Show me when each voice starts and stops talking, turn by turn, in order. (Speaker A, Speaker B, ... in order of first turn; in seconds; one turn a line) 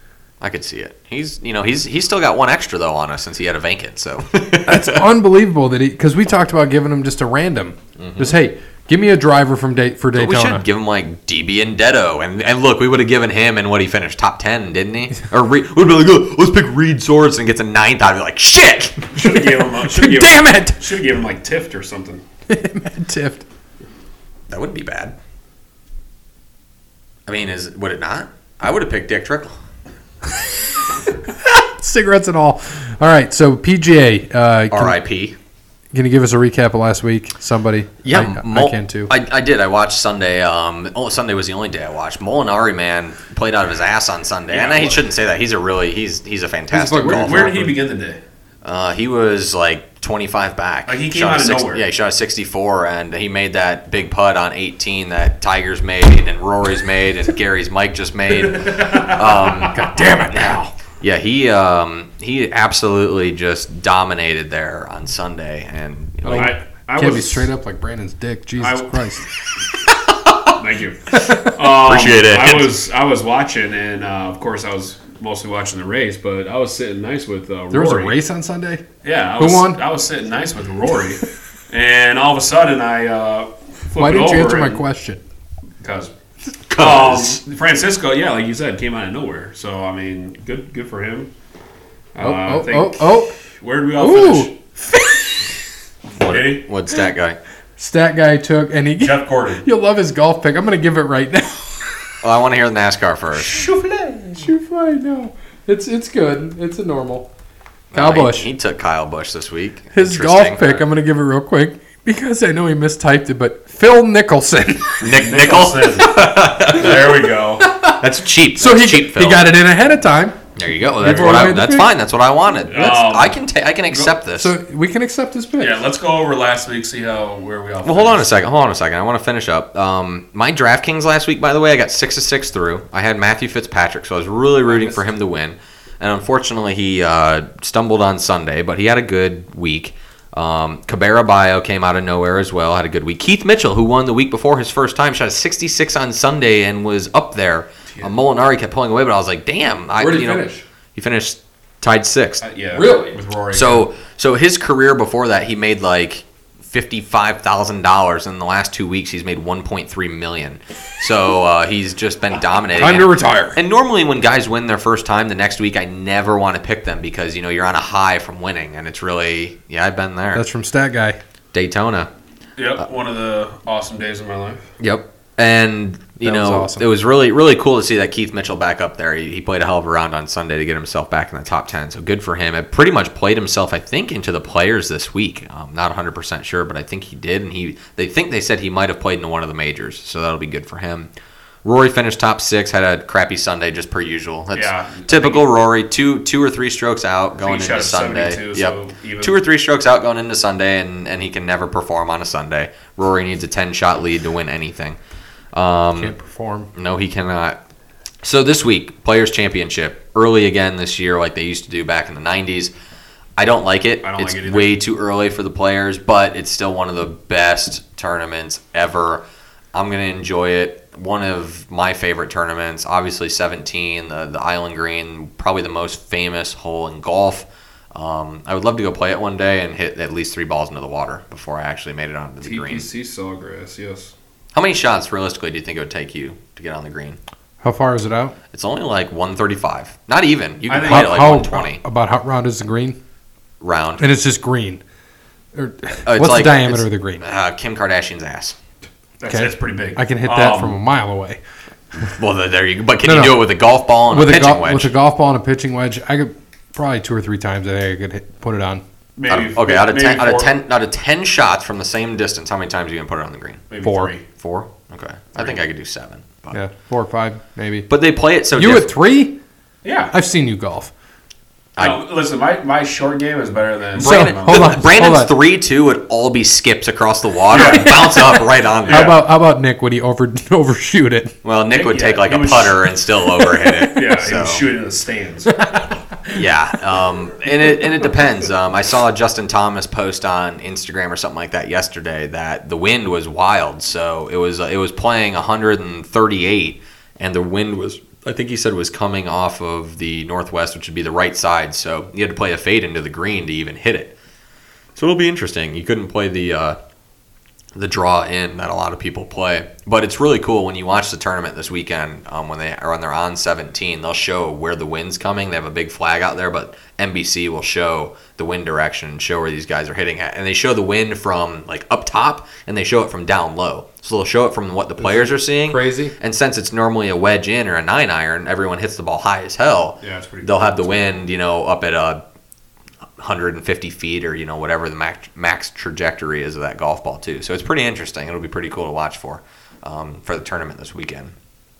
Speaker A: 0.4-5.0
Speaker B: 4.7-10.6
Speaker A: 8.0-8.3
Speaker A: 10.1-19.1
Speaker C: 19.1-22.2
Speaker B: 19.2-20.9
Speaker B: 22.5-23.4
Speaker A: 24.5-25.1
Speaker A: 27.3-29.6
Speaker B: 30.3-30.6
Speaker B: 31.2-35.0
Speaker A: 34.7-35.4
Speaker B: 35.9-39.1
Speaker A: 38.0-47.6
Speaker C: 44.5-45.0
Speaker B: 46.7-47.7
Speaker C: 47.0-48.2
Speaker A: 48.6-66.5
Speaker C: 50.9-51.8
Speaker C: 58.4-59.6
Speaker B: 59.6-60.7
Speaker B: 66.2-69.3
Speaker C: 66.3-67.5
Speaker C: 68.6-69.0
Speaker A: 70.0-70.6
Speaker C: 70.6-78.2
Speaker B: 71.1-71.5
Speaker A: 71.7-72.7
Speaker B: 77.7-78.9
Speaker C: 79.0-84.8
Speaker B: 79.4-79.8
Speaker B: 84.0-85.2
Speaker C: 85.8-86.1
Speaker A: 86.7-87.4
Speaker C: 86.7-91.3
Speaker C: 92.1-94.5
Speaker B: 92.2-93.4
Speaker B: 94.0-95.4
Speaker A: 96.2-97.4
Speaker C: 96.2-96.7
Speaker B: 97.8-102.1
Speaker C: 99.0-99.6
Speaker A: 102.2-103.6
Speaker C: 103.4-104.5
Speaker B: 104.4-107.3
Speaker A: 107.9-110.8
Speaker B: 107.9-108.5
Speaker B: 109.9-115.2
Speaker A: 115.0-117.1
Speaker C: 115.1-117.7
Speaker B: 117.6-118.0
Speaker A: 118.0-119.5
Speaker B: 118.6-120.4
Speaker A: 120.6-124.5
Speaker B: 121.0-121.9
Speaker C: 122.7-123.4
Speaker B: 124.4-125.8
Speaker C: 125.6-128.4
Speaker A: 127.8-152.4
Speaker B: 150.0-150.6
Speaker C: 152.4-153.9
Speaker B: 152.7-153.2
Speaker A: 153.5-170.4
Speaker B: 162.8-163.6
Speaker B: 170.3-171.2
Speaker A: 171.5-172.1
Speaker C: 172.6-174.7
Speaker A: 174.8-191.1
Speaker B: 176.2-176.9
Speaker A: 191.6-205.0
Speaker C: 194.6-195.5
Speaker C: 197.4-199.4
Speaker A: 205.5-206.1
Speaker B: 205.9-206.7
Speaker A: 206.7-207.6
Speaker A: 208.2-212.7
Speaker A: 213.4-232.9
Speaker C: 214.0-214.8
Speaker C: 232.4-234.1
Speaker A: 234.5-237.2
Speaker B: 237.6-238.4
Speaker A: 238.5-241.8
Speaker C: 240.7-241.3
Speaker B: 240.8-243.0
Speaker A: 243.6-244.1
Speaker B: 244.0-244.8
Speaker B: 245.5-247.2
Speaker A: 246.1-248.6
Speaker C: 249.2-250.8
Speaker B: 249.3-251.4
Speaker A: 252.1-254.9
Speaker B: 253.0-253.5
Speaker B: 254.1-258.8
Speaker C: 259.2-260.5
Speaker A: 259.3-263.6
Speaker C: 263.7-264.2
Speaker B: 263.8-264.1
Speaker A: 264.4-266.6
Speaker B: 266.5-267.9
Speaker A: 267.9-268.9
Speaker B: 268.6-269.4
Speaker C: 269.8-270.1
Speaker B: 270.1-270.9
Speaker C: 271.8-275.0
Speaker A: 274.0-279.1
Speaker B: 274.0-275.4
Speaker C: 277.5-279.2
Speaker B: 277.6-281.4
Speaker A: 281.4-284.6
Speaker C: 281.7-283.0
Speaker B: 283.4-284.0
Speaker C: 283.9-285.6
Speaker B: 285.5-286.4
Speaker A: 286.3-304.1
Speaker A: 304.9-306.8
Speaker A: 307.7-332.2
Speaker B: 325.0-326.1
Speaker C: 330.0-331.0
Speaker A: 333.2-341.3